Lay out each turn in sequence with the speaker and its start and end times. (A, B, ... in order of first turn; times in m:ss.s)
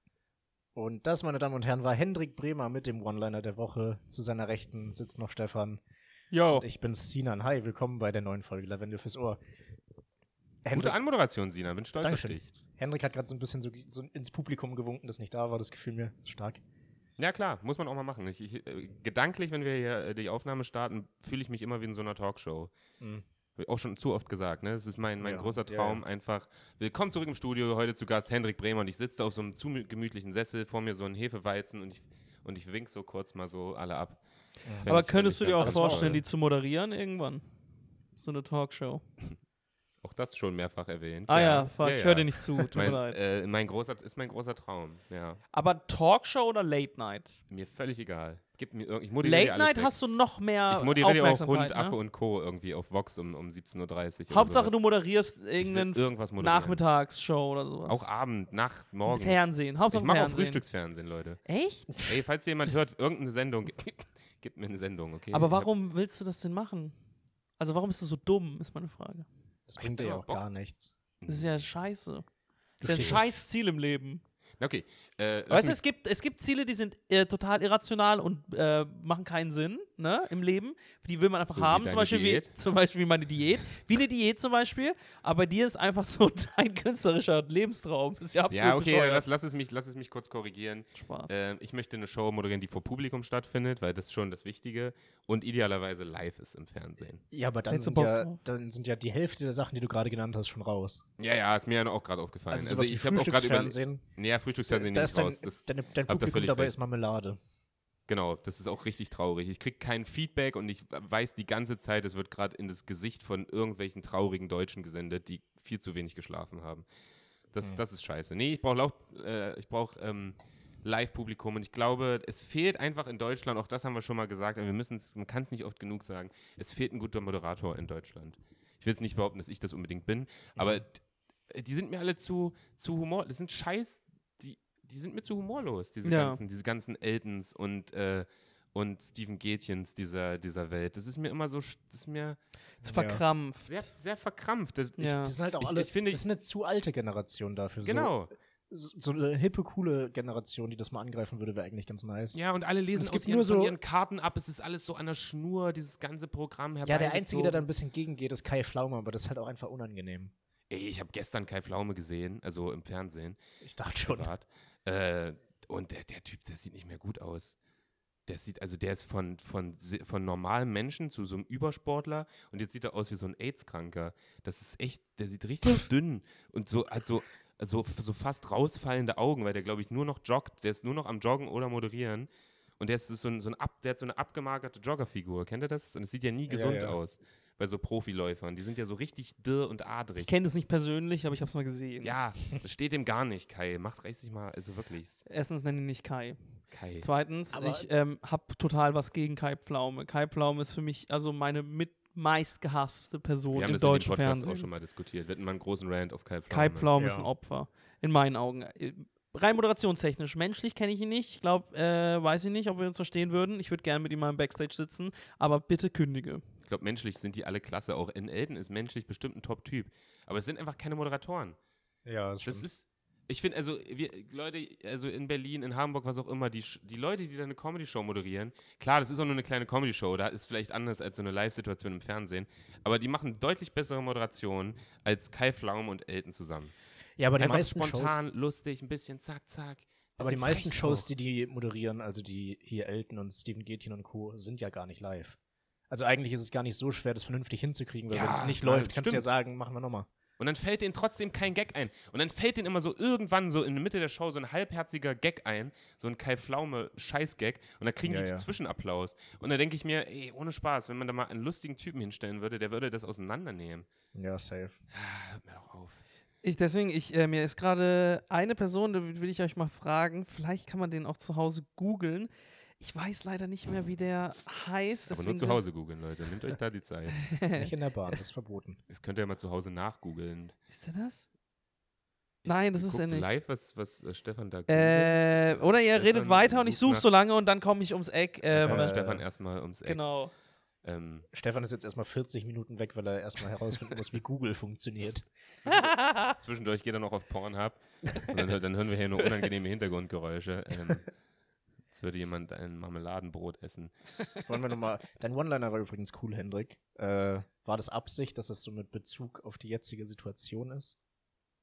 0:00.7-0:05.8 A
0:06.3-0:06.6 B
0:06.5-0:09.4 A
0:10.6-0:11.0 A
0:10.7-0:12.5 C
0:12.0-0:16.6 A
0:17.2-0:22.7 C
0:23.0-0:23.2 A
0:23.6-0:34.2 C
0:25.2-0:26.0 A
0:34.6-0:36.2 A
0:34.8-0:36.2 C
0:34.9-0:37.4 B
0:38.2-0:39.0 B
0:40.0-0:45.4 C
0:41.3-0:43.2 B
0:45.5-0:47.4 B
0:47.5-0:49.9 C
0:49.2-0:52.0 B
0:50.7-0:54.7 C
0:54.3-0:58.0 B
0:55.6-0:56.8 C
0:57.9-1:01.4 C
0:59.1-1:00.6 B
1:01.4-1:02.0 B
1:02.0-1:05.7 C
1:05.3-1:06.9 B
1:07.6-1:09.3 B
1:09.7-1:10.9 A
1:09.8-1:10.4 C
1:11.2-1:11.6 C
1:11.3-1:12.2 B
1:12.8-1:14.2 B
1:12.8-1:13.4 A
1:12.9-1:13.2 C
1:14.6-1:15.8 C
1:15.5-1:29.2 B
1:21.5-1:22.5 C
1:28.5-1:37.2 C
1:31.0-1:31.4 B
1:37.3-1:41.0 A
1:37.7-1:38.4 B
1:41.2-1:46.8 C
1:42.5-1:44.0 A
1:44.7-1:47.4 A
1:48.1-1:56.8 C
1:57.5-2:22.4 C
2:10.6-2:10.8 A
2:16.0-2:16.4 B
2:22.8-2:23.7 B
2:22.8-2:23.2 A
2:23.6-2:26.2 C
2:25.0-2:25.3 B
2:25.2-2:28.2 A
2:27.8-2:28.3 C
2:28.7-2:32.4 A
2:32.3-2:37.7 C
2:32.9-2:33.8 A
2:36.8-2:40.3 A
2:40.7-2:43.4 C
2:43.6-2:44.3 A
2:44.0-2:47.6 C
2:48.3-3:10.3 C
3:06.5-3:07.0 A
3:10.2-3:12.2 B
3:12.0-3:15.2 C
3:15.2-3:16.4 B
3:16.7-3:17.1 C
3:17.0-3:24.7 B
3:17.5-3:17.9 A
3:23.5-3:26.9 C
3:26.5-3:36.4 B
3:26.9-3:27.3 A
3:36.6-3:41.6 C
3:42.0-3:42.7 A
3:42.4-3:56.7 C
3:57.2-3:58.2 A
3:57.4-4:01.1 C
4:00.2-4:05.4 A
4:05.9-4:10.1 A
4:08.1-4:09.2 C
4:10.4-4:23.9 C
4:18.1-4:18.4 A
4:24.1-4:24.8 A
4:24.9-4:26.0 C
4:26.4-4:35.6 B
4:35.1-4:37.2 C
4:37.1-4:37.7 B
4:37.6-4:38.8 A
4:38.9-4:40.5 C
4:40.7-4:41.2 B
4:42.4-4:47.1 C
4:42.4-4:43.3 B
4:44.7-4:48.9 B
4:48.5-4:50.0 C
4:48.6-4:49.2 A
4:49.8-4:50.3 B
4:50.8-4:51.3 C
4:51.3-4:55.3 A
4:55.6-5:01.1 C
4:55.7-4:56.4 B
5:01.9-5:03.9 C
5:04.4-5:11.0 A